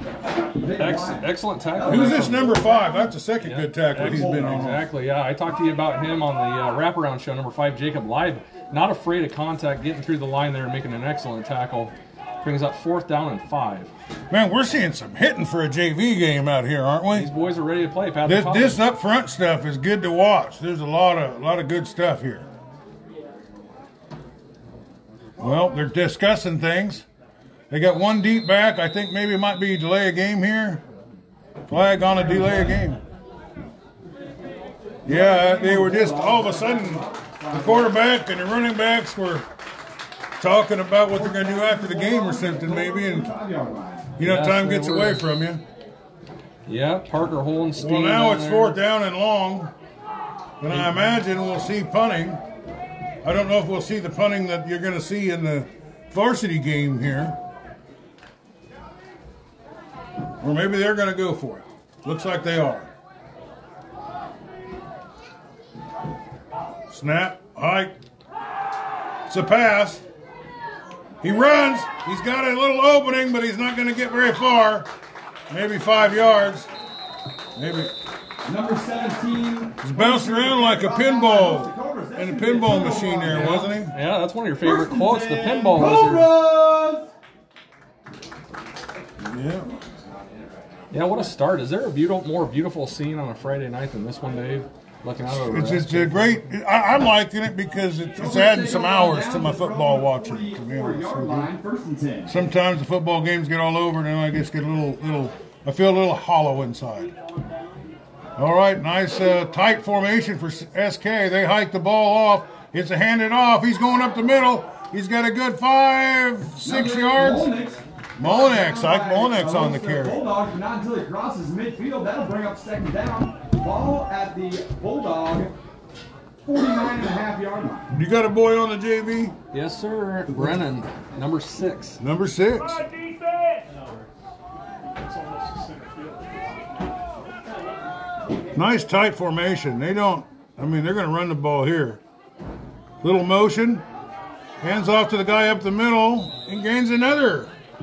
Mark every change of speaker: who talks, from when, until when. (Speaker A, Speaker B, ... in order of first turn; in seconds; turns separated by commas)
Speaker A: 0.6-2.4, Speaker B: 0.7-2.6, Speaker C: 1.9-4.9, Speaker B: 3.4-13.9, Speaker A: 4.0-4.8, Speaker C: 14.3-17.3, Speaker B: 17.1-18.8, Speaker C: 18.2-22.5, Speaker C: 25.4-27.0, Speaker C: 27.7-30.8, Speaker C: 31.7-33.0, Speaker A: 32.1-32.8, Speaker A: 35.0-38.0, Speaker C: 35.0-39.5, Speaker C: 40.4-43.3, Speaker A: 41.1-44.1, Speaker C: 44.2-45.6, Speaker B: 44.2-45.2, Speaker B: 46.7-48.8, Speaker C: 47.8-49.7, Speaker C: 50.6-52.4, Speaker C: 53.2-57.4, Speaker C: 60.4-62.9, Speaker C: 66.9-68.0, Speaker C: 69.3-70.0, Speaker C: 71.2-74.9, Speaker C: 75.5-76.7, Speaker C: 77.5-77.9, Speaker A: 78.5-83.6, Speaker C: 79.8-83.9, Speaker B: 83.3-86.3, Speaker A: 84.6-87.1, Speaker C: 89.2-89.8, Speaker B: 90.9-96.3, Speaker C: 95.2-101.5, Speaker A: 98.2-102.3, Speaker C: 102.3-107.1, Speaker C: 108.4-117.5, Speaker A: 116.6-125.5, Speaker C: 118.2-120.2, Speaker A: 126.4-127.9, Speaker C: 127.9-129.3, Speaker B: 129.5-132.0, Speaker C: 130.3-130.7, Speaker C: 132.0-132.9, Speaker C: 138.5-142.0, Speaker C: 143.0-143.8, Speaker C: 144.6-147.5